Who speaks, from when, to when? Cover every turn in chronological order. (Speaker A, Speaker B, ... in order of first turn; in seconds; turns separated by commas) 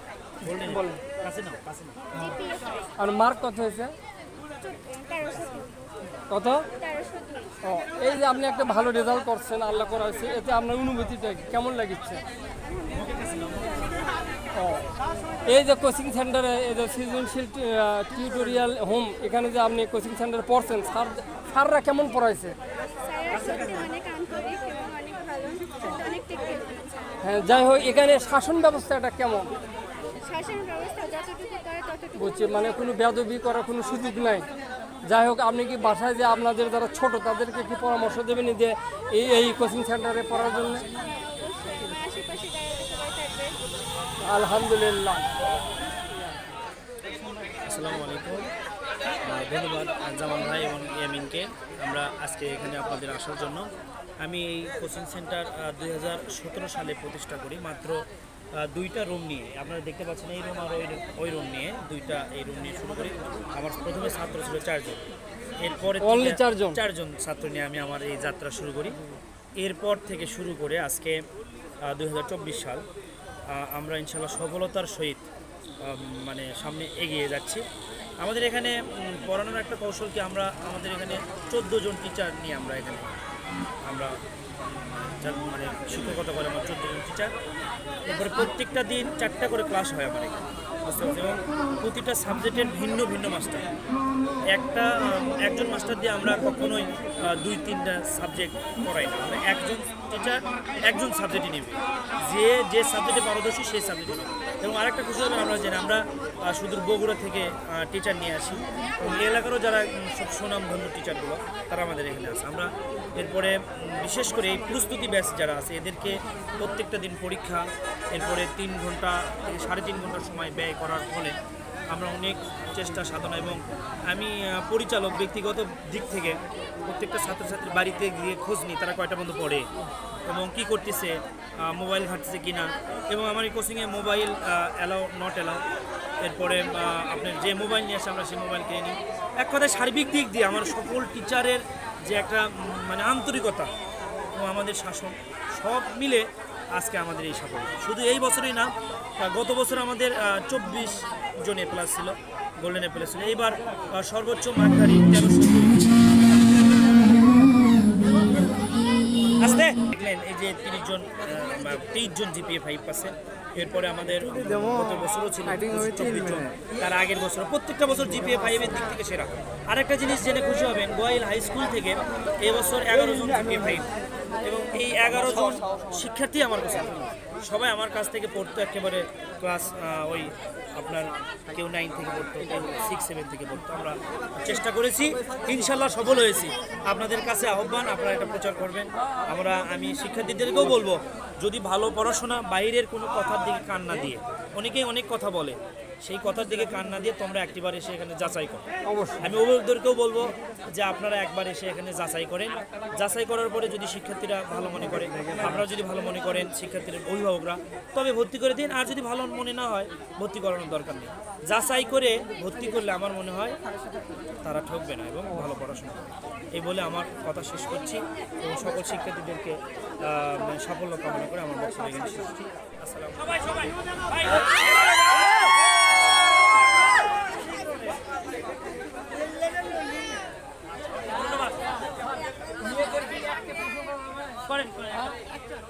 Speaker A: 0.4-2.3, Speaker B: 0.7-1.0, Speaker B: 2.9-4.0, Speaker C: 4.8-5.3, Speaker B: 6.3-6.7, Speaker C: 6.9-7.5, Speaker B: 7.6-12.2, Speaker A: 12.8-13.9, Speaker B: 14.5-14.8, Speaker B: 15.4-22.6, Speaker A: 23.2-24.0, Speaker C: 23.9-27.1, Speaker B: 27.2-29.6, Speaker C: 30.2-32.1, Speaker B: 32.1-34.5, Speaker B: 35.0-40.9, Speaker C: 41.4-43.6, Speaker B: 44.2-45.3, Speaker A: 47.6-48.5, Speaker A: 49.2-58.0, Speaker A: 58.5-65.0, Speaker A: 65.6-69.0, Speaker B: 66.0-66.8, Speaker A: 69.6-71.2, Speaker A: 71.8-72.8, Speaker A: 73.5-75.3, Speaker A: 75.8-77.6, Speaker A: 78.2-83.2, Speaker A: 83.8-84.2, Speaker A: 85.0-87.3, Speaker A: 88.0-93.7, Speaker A: 94.5-121.4, Speaker A: 121.9-129.7, Speaker A: 130.2-135.6, Speaker A: 136.2-143.7, Speaker A: 144.3-155.8, Speaker A: 159.4-173.9, Speaker A: 174.4-198.7, Speaker B: 198.9-199.3, Speaker A: 199.2-213.6, Speaker A: 214.4-224.4, Speaker B: 232.6-234.4, Speaker A: 234.5-235.0